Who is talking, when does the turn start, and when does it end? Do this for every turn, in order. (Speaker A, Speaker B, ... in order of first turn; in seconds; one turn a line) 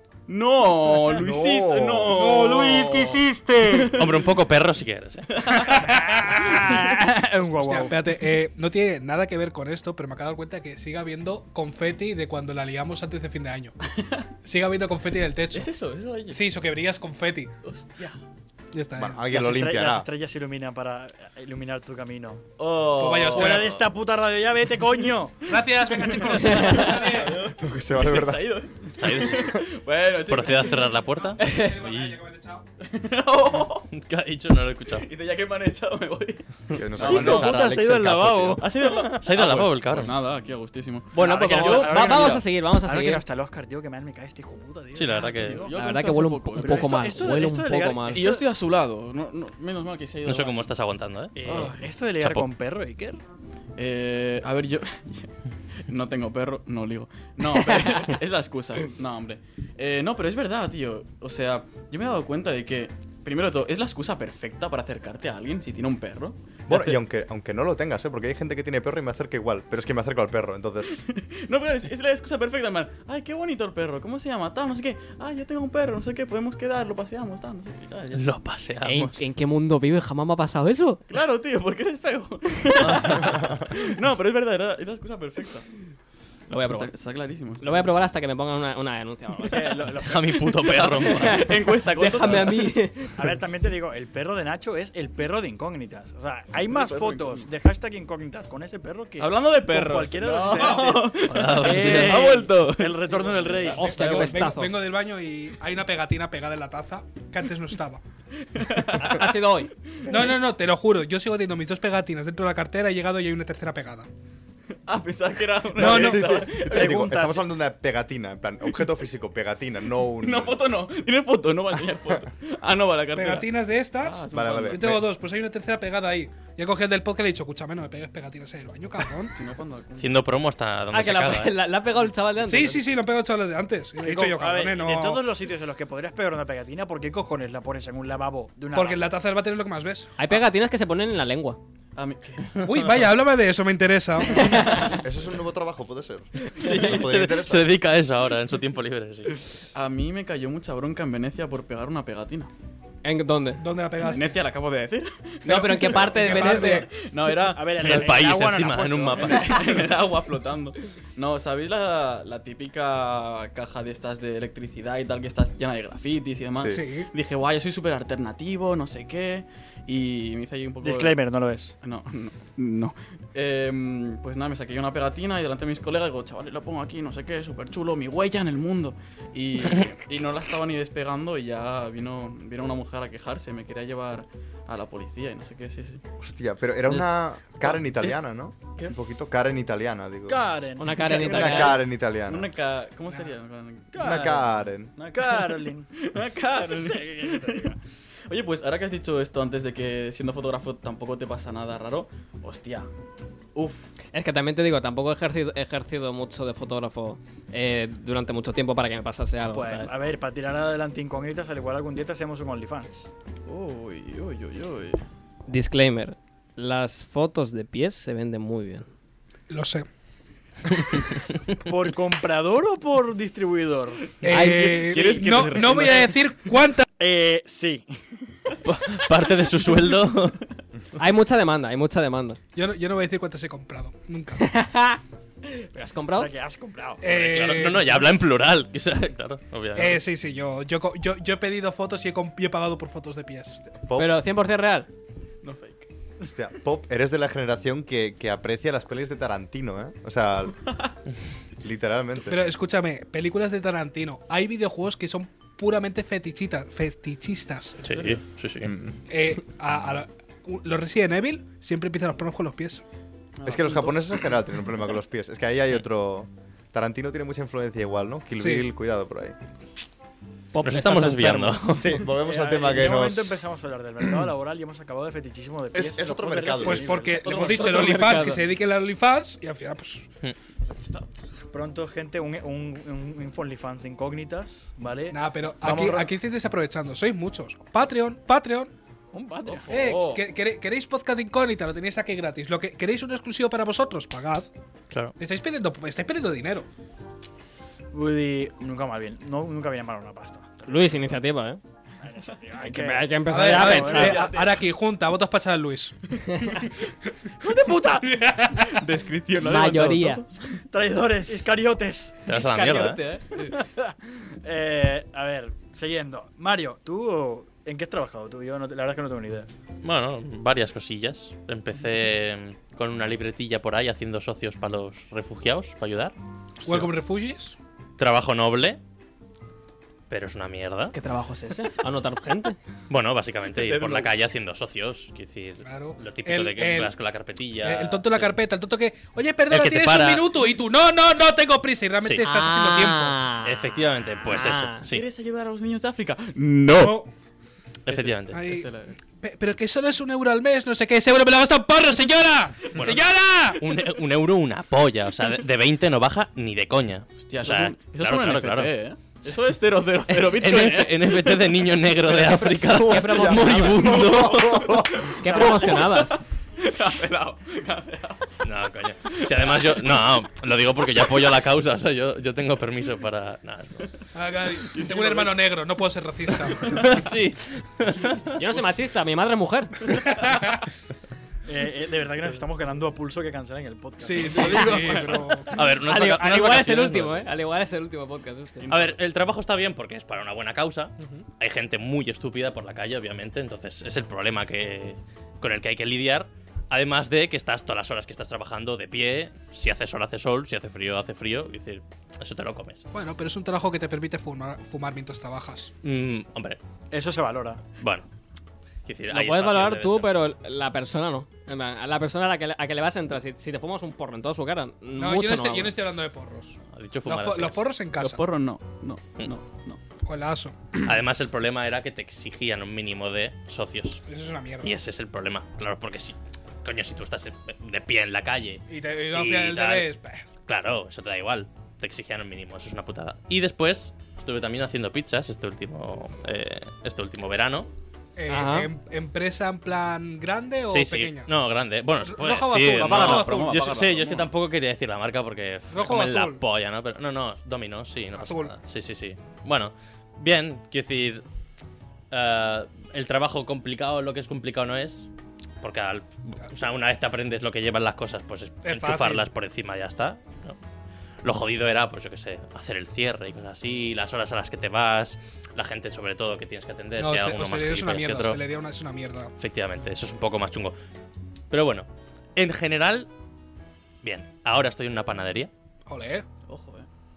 Speaker A: 0.3-4.1
Speaker B: 1.1-2.3
Speaker C: 2.1-4.0
Speaker D: 3.9-5.3
Speaker A: 5.3-5.9
Speaker C: 5.5-6.8
Speaker E: 5.8-8.0
Speaker C: 7.6-13.7
Speaker C: 14.4-15.7
Speaker A: 15.5-16.5
Speaker C: 16.3-17.5
Speaker A: 17.6-18.2
Speaker C: 18.7-19.2
Speaker B: 18.9-20.1
Speaker E: 19.3-22.4
Speaker A: 22.6-23.8
Speaker C: 22.9-23.8
Speaker E: 23.3-25.4
Speaker C: 25.5-27.4
Speaker A: 25.8-31.0
Speaker F: 26.4-26.8
Speaker B: 27.5-28.7
Speaker D: 29.0-29.6
Speaker D: 30.3-32.2
Speaker C: 31.1-32.6
Speaker F: 31.4-31.8
Speaker A: 32.8-33.9
Speaker D: 33.9-35.1
Speaker A: 34.9-37.6
Speaker B: 36.7-38.6
Speaker E: 37.0-38.7
Speaker A: 38.6-42.4
Speaker D: 39.2-40.1
Speaker F: 41.1-43.2
Speaker E: 41.1-45.7
Speaker D: 44.9-45.6
Speaker A: 45.4-47.3
Speaker F: 45.7-48.2
Speaker E: 46.6-48.5
Speaker A: 48.1-50.7
Speaker D: 50.2-52.5
Speaker E: 51.3-53.2
Speaker A: 51.4-51.8
Speaker A: 53.8-55.3
Speaker A: 55.9-67.0
Speaker B: 66.7-71.0
Speaker A: 71.0-78.3
Speaker D: 78.1-79.2
Speaker F: 78.8-81.0
Speaker A: 81.1-85.7
Speaker D: 82.8-83.4
Speaker F: 86.5-86.9
Speaker A: 86.6-87.9
Speaker F: 87.6-89.8
Speaker E: 89.5-90.8
Speaker D: 90.0-91.5
Speaker A: 90.7-92.8
Speaker F: 91.0-93.2
Speaker E: 93.2-104.0
Speaker A: 96.7-97.5
Speaker A: 99.2-104.5
Speaker C: 100.5-101.0
Speaker D: 101.3-102.3
Speaker F: 103.7-104.7
Speaker C: 103.8-108.0
Speaker A: 108.5-109.3
Speaker F: 109.0-109.7
Speaker A: 110.1-110.4
Speaker C: 110.1-114.1
Speaker A: 114.8-117.3
Speaker C: 115.8-116.3
Speaker B: 115.8-120.6
Speaker E: 116.1-117.4
Speaker A: 120.2-125.0
Speaker C: 123.1-129.3
Speaker B: 124.3-125.1
Speaker A: 129.3-130.2
Speaker D: 130.0-131.6
Speaker F: 130.9-132.8
Speaker C: 132.4-135.2
Speaker E: 134.0-139.1
Speaker C: 138.7-140.1
Speaker F: 140.2-141.6
Speaker A: 141.9-142.6
Speaker C: 142.6-144.7
Speaker F: 144.3-144.9
Speaker A: 144.4-144.9
Speaker B: 145.0-147.7
Speaker D: 146.6-149.4
Speaker A: 149.7-152.5
Speaker F: 153.0-153.6
Speaker C: 153.6-154.3
Speaker A: 154.0-158.2
Speaker F: 155.5-156.9
Speaker C: 155.5-156.9
Speaker E: 157.4-159.5
Speaker D: 157.8-159.8
Speaker A: 159.2-171.2
Speaker C: 166.7-167.1
Speaker E: 170.8-171.7
Speaker A: 171.8-186.0
Speaker B: 186.2-190.4
Speaker A: 186.8-188.1
Speaker E: 190.3-191.6
Speaker F: 190.8-191.8
Speaker A: 191.0-197.7
Speaker B: 191.1-192.5
Speaker E: 193.9-194.5
Speaker B: 194.0-194.9
Speaker E: 195.0-195.9
Speaker E: 196.5-197.8
Speaker A: 198.3-202.9
Speaker A: 203.5-203.9
Speaker F: 204.1-209.9
Speaker E: 209.5-213.1
Speaker A: 213.5-215.0
Speaker F: 215.5-218.9
Speaker C: 219.5-219.8
Speaker E: 221.6-224.1
Speaker A: 224.2-226.3
Speaker C: 224.2-226.8
Speaker F: 224.3-225.1
Speaker E: 227.0-228.3
Speaker D: 228.6-230.4
Speaker F: 230.9-232.4
Speaker C: 232.5-234.4
Speaker F: 234.4-236.3
Speaker E: 236.1-237.1
Speaker C: 237.0-238.0
Speaker D: 237.1-240.0
Speaker C: 239.7-243.6
Speaker B: 243.7-244.1
Speaker F: 243.9-244.9
Speaker A: 245.4-245.9
Speaker B: 246.2-250.6
Speaker B: 251.6-252.4
Speaker C: 252.2-257.8
Speaker A: 257.8-258.2
Speaker D: 257.8-258.7
Speaker B: 258.6-258.9
Speaker C: 259.1-262.8
Speaker A: 263.4-264.1
Speaker B: 263.4-269.4
Speaker C: 268.4-268.6
Speaker F: 270.5-271.8
Speaker D: 270.6-272.0
Speaker B: 271.7-273.4
Speaker E: 272.1-277.7
Speaker B: 275.7-277.1
Speaker C: 276.6-280.1
Speaker A: 277.2-278.4
Speaker A: 280.6-281.1
Speaker E: 281.5-286.1
Speaker C: 285.1-288.7
Speaker E: 289.1-289.8
Speaker A: 289.4-290.3
Speaker C: 289.7-294.5
Speaker C: 295.2-296.6
Speaker E: 297.9-300.8
Speaker F: 300.6-301.6
Speaker E: 302.0-304.3
Speaker F: 302.6-304.2
Speaker C: 303.3-306.7
Speaker A: 303.7-304.7
Speaker E: 307.4-308.2
Speaker C: 308.1-308.8
Speaker A: 308.6-310.5
Speaker F: 309.4-310.2
Speaker E: 310.7-312.2
Speaker D: 312.3-313.0
Speaker F: 312.3-313.2
Speaker E: 313.4-319.5
Speaker D: 319.8-326.9
Speaker C: 326.6-327.6
Speaker D: 328.0-328.8
Speaker D: 330.1-330.9
Speaker F: 330.9-332.6
Speaker D: 332.9-338.4
Speaker A: 333.5-334.1
Speaker C: 335.6-336.9
Speaker C: 337.6-343.2
Speaker D: 339.5-340.2
Speaker F: 342.2-344.8
Speaker D: 343.4-345.1
Speaker A: 344.8-347.0
Speaker C: 346.7-347.1
Speaker D: 347.9-348.4
Speaker A: 347.9-349.0
Speaker C: 348.3-353.6
Speaker D: 352.7-358.7
Speaker A: 357.1-361.4
Speaker D: 360.1-364.8
Speaker B: 362.5-365.3
Speaker F: 362.8-363.8
Speaker A: 363.9-368.4
Speaker F: 365.2-366.1
Speaker E: 365.2-365.6
Speaker D: 368.4-373.9
Speaker A: 369.1-369.9
Speaker C: 374.1-376.9
Speaker A: 374.5-375.6
Speaker D: 376.6-378.4
Speaker F: 378.4-379.8
Speaker C: 379.9-380.6
Speaker E: 381.4-385.5
Speaker C: 384.0-385.5
Speaker A: 384.4-384.9
Speaker D: 385.5-387.2
Speaker F: 385.8-388.7
Speaker A: 388.6-389.0
Speaker D: 388.7-402.8
Speaker C: 402.9-405.7
Speaker D: 405.8-406.6
Speaker E: 406.9-407.6
Speaker D: 407.8-408.1
Speaker D: 408.9-410.1
Speaker F: 409.1-415.7
Speaker C: 415.0-418.2
Speaker D: 416.7-417.6
Speaker A: 418.0-419.8
Speaker C: 420.0-420.9
Speaker D: 420.8-424.0
Speaker C: 424.1-424.7
Speaker D: 424.6-429.9
Speaker C: 428.7-430.2
Speaker D: 430.5-437.7
Speaker C: 438.2-441.3
Speaker F: 438.3-438.7
Speaker D: 440.7-451.2
Speaker C: 442.0-443.8
Speaker A: 442.7-444.3
Speaker C: 445.7-446.4
Speaker C: 448.1-448.5
Speaker D: 452.1-455.1
Speaker D: 455.6-460.6
Speaker C: 458.6-459.2
Speaker D: 461.2-468.4
Speaker C: 467.0-469.3
Speaker D: 469.4-470.7
Speaker D: 471.5-473.1
Speaker D: 474.0-475.5
Speaker C: 475.9-476.2
Speaker A: 476.5-476.9